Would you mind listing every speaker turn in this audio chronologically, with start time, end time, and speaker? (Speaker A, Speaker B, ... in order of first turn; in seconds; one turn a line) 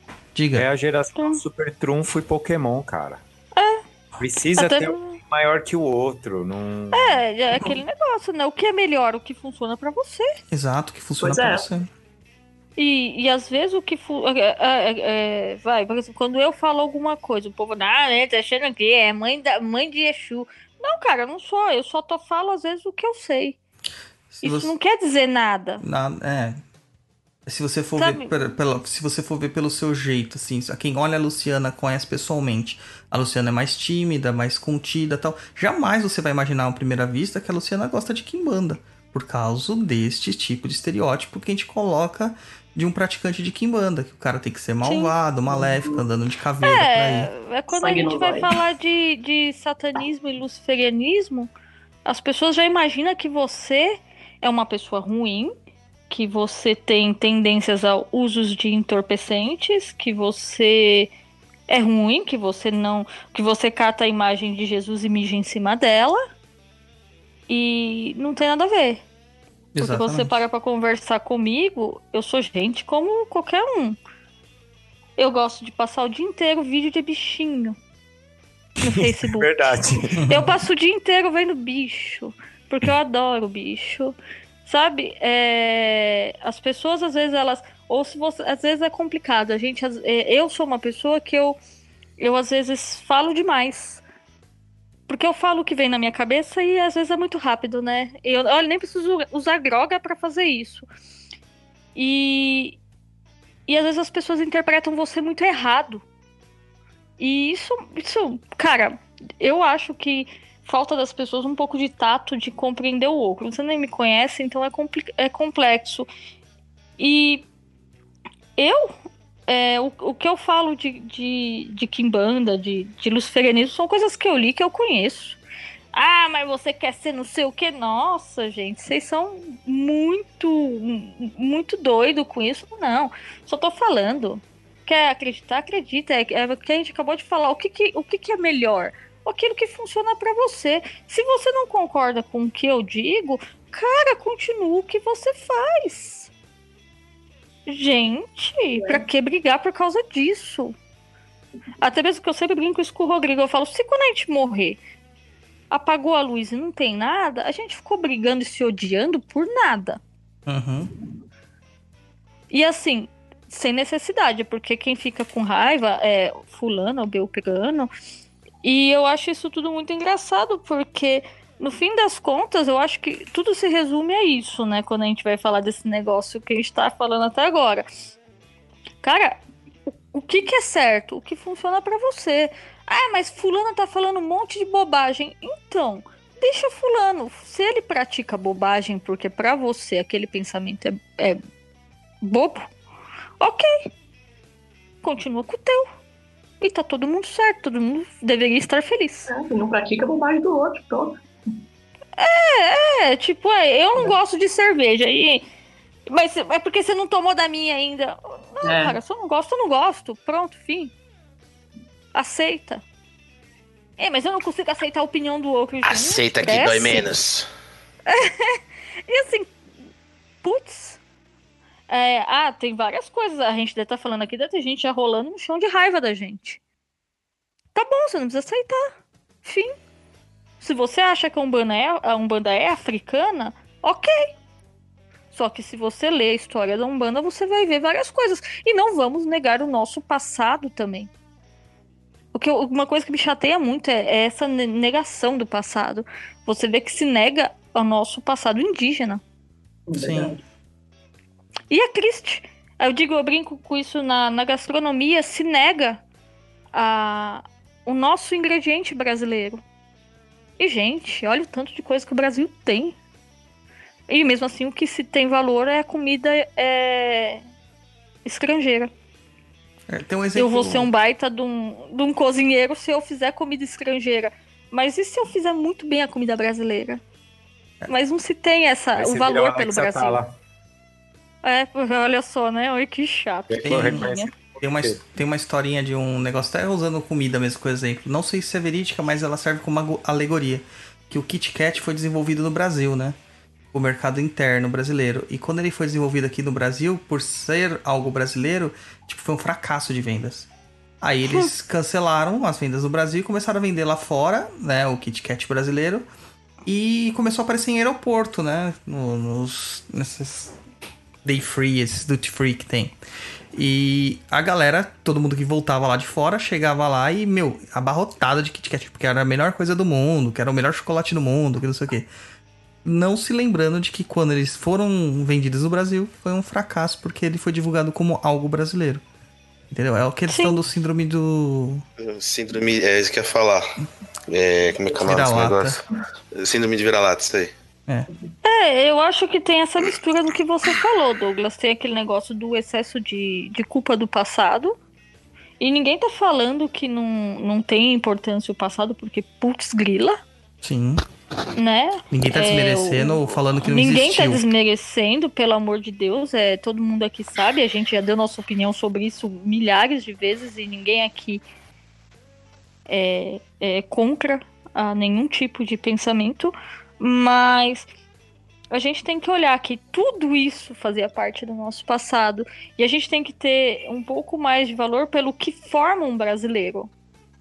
Speaker A: 0.3-0.7
Speaker B: 0.5-3.2
Speaker C: 3.5-3.8
Speaker B: 4.2-7.2
Speaker C: 4.6-5.0
Speaker C: 6.9-10.3
Speaker A: 10.5-11.9
Speaker D: 11.2-11.7
Speaker C: 12.8-23.6
Speaker A: 24.3-24.7
Speaker C: 24.4-25.8
Speaker A: 25.8-26.6
Speaker A: 27.4-47.3
Speaker C: 28.0-28.3
Speaker C: 44.8-45.1
Speaker D: 45.5-46.0
Speaker C: 46.6-51.5
Speaker D: 47.7-48.6
Speaker C: 52.0-55.5
Speaker C: 56.1-61.1
Speaker C: 61.7-66.2
Speaker C: 67.5-69.0
Speaker A: 69.7-70.4
Speaker C: 69.8-74.0
Speaker C: 75.2-77.8
Speaker C: 78.8-79.7
Speaker B: 78.8-80.5
Speaker A: 80.2-80.5
Speaker C: 80.3-91.6
Speaker C: 92.2-94.0
Speaker C: 95.1-100.9
Speaker C: 101.9-102.8
Speaker C: 103.7-106.0
Speaker C: 107.2-116.1
Speaker C: 117.0-117.5
Speaker C: 118.6-118.9
Speaker C: 119.5-125.4
Speaker C: 125.9-146.3
Speaker C: 147.7-150.7
Speaker D: 148.8-149.0
Speaker C: 151.8-154.8
Speaker C: 155.7-160.0
Speaker A: 160.4-160.9
Speaker C: 162.5-167.9
Speaker C: 168.6-177.9
Speaker C: 179.0-191.4
Speaker C: 192.2-192.7
Speaker C: 193.4-193.9
Speaker C: 195.0-195.8
Speaker C: 196.6-199.3
Speaker D: 199.3-201.2
Speaker C: 202.2-205.4
Speaker C: 206.1-210.9
Speaker D: 208.6-209.0
Speaker C: 212.1-212.8
Speaker C: 214.0-217.2
Speaker E: 215.8-217.5
Speaker C: 218.1-219.5
Speaker C: 220.4-221.0
Speaker C: 221.9-226.6
Speaker C: 227.7-228.9
Speaker C: 229.4-229.7
Speaker C: 230.6-234.3
Speaker C: 235.3-241.1
Speaker C: 242.3-249.2
Speaker D: 249.9-250.4
Speaker A: 249.9-250.3
Speaker C: 251.7-256.0
Speaker C: 256.7-259.6
Speaker C: 260.6-262.9
Speaker C: 264.1-267.4
Speaker C: 268.2-268.9
Speaker A: 269.9-270.9
Speaker C: 270.3-277.0
Speaker C: 277.9-280.2
Speaker B: 278.9-280.3
Speaker C: 281.4-284.3
Speaker B: 283.5-285.0
Speaker A: 283.6-293.2
Speaker A: 293.7-300.5
Speaker A: 301.0-306.1
Speaker A: 306.6-310.6
Speaker A: 311.2-312.9
Speaker A: 313.5-322.1
Speaker A: 322.8-329.0
Speaker A: 329.7-331.8
Speaker C: 330.3-330.6
Speaker E: 332.0-333.7
Speaker E: 334.3-335.8
Speaker A: 335.0-335.8
Speaker E: 336.3-337.5
Speaker C: 338.4-344.7
Speaker C: 345.6-350.2
Speaker A: 350.6-351.0
Speaker C: 351.6-361.4
Speaker A: 352.1-354.4
Speaker C: 362.9-367.9
Speaker C: 368.7-376.9